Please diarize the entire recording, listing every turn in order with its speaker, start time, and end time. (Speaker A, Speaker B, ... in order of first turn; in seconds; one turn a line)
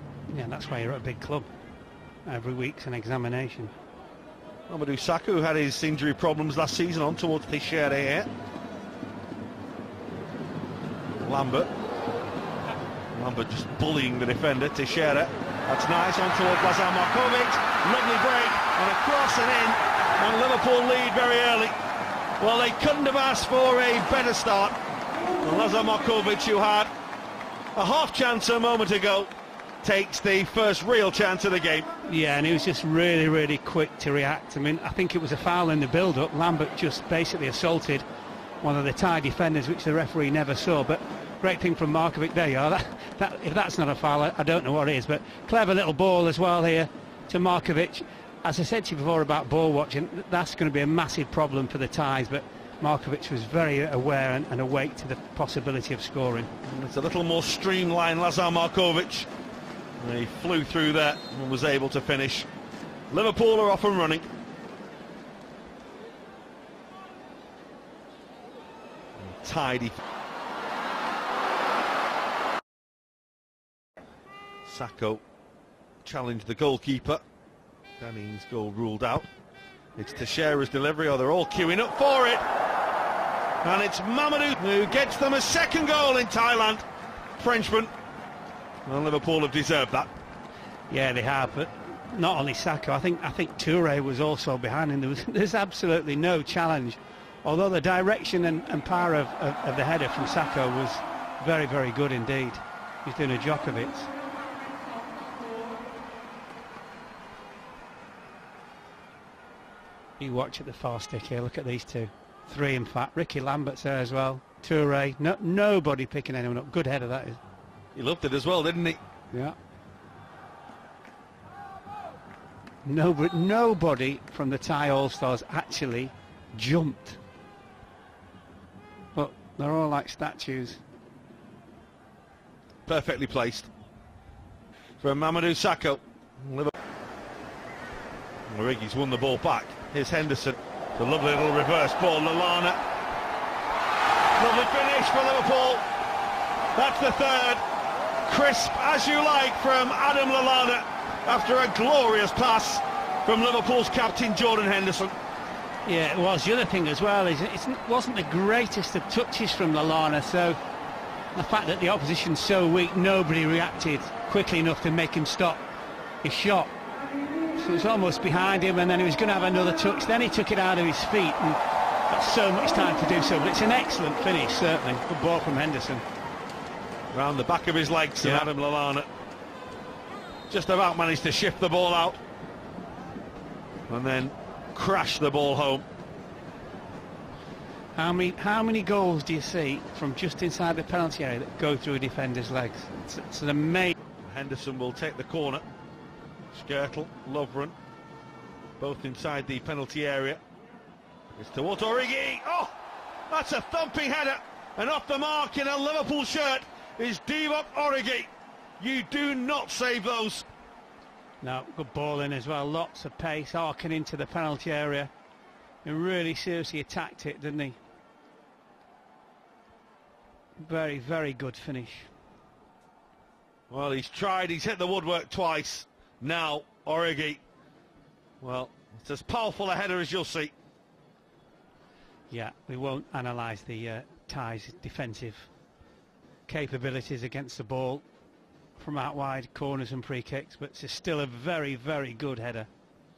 Speaker A: 0.3-1.5
Speaker A: 2.2-3.7
Speaker B: 4.7-8.3
Speaker B: 11.1-11.7
Speaker B: 13.1-21.8
Speaker B: 22.4-24.8
Speaker B: 25.4-26.9
Speaker B: 27.8-29.3
Speaker B: 29.8-31.9
Speaker A: 32.1-38.0
Speaker A: 38.6-56.5
Speaker B: 56.6-59.3
Speaker B: 60.0-62.5
Speaker B: 63.1-64.3
Speaker B: 69.2-70.0
Speaker B: 74.7-75.2
Speaker B: 76.0-77.2
Speaker B: 78.0-79.3
Speaker B: 80.0-82.4
Speaker B: 83.6-86.8
Speaker B: 87.4-87.9
Speaker B: 88.8-90.1
Speaker A: 90.9-104.1
Speaker A: 110.2-117.4
Speaker B: 118.0-119.0
Speaker A: 122.8-127.2
Speaker A: 129.2-130.8
Speaker B: 132.9-133.7
Speaker B: 135.0-136.7
Speaker B: 138.5-142.8
Speaker B: 144.4-145.8
Speaker B: 146.8-147.6
Speaker B: 148.2-155.2
Speaker A: 155.8-160.6
Speaker A: 161.3-165.7
Speaker A: 166.2-166.7
Speaker A: 167.6-176.0
Speaker B: 177.1-179.1
Speaker A: 178.2-178.5
Speaker B: 180.5-182.2
Speaker B: 183.9-185.9
Speaker A: 188.0-193.9
Speaker B: 194.2-195.6
Speaker B: 196.5-197.8
Speaker B: 198.8-200.4
Speaker B: 201.3-202.8
Speaker B: 203.3-210.5
Speaker A: 211.4-215.1
Speaker A: 215.8-217.8
Speaker A: 220.6-222.1
Speaker B: 223.7-227.4
Speaker B: 228.4-230.5
Speaker A: 232.3-235.5
Speaker A: 236.5-238.1
Speaker A: 238.8-242.7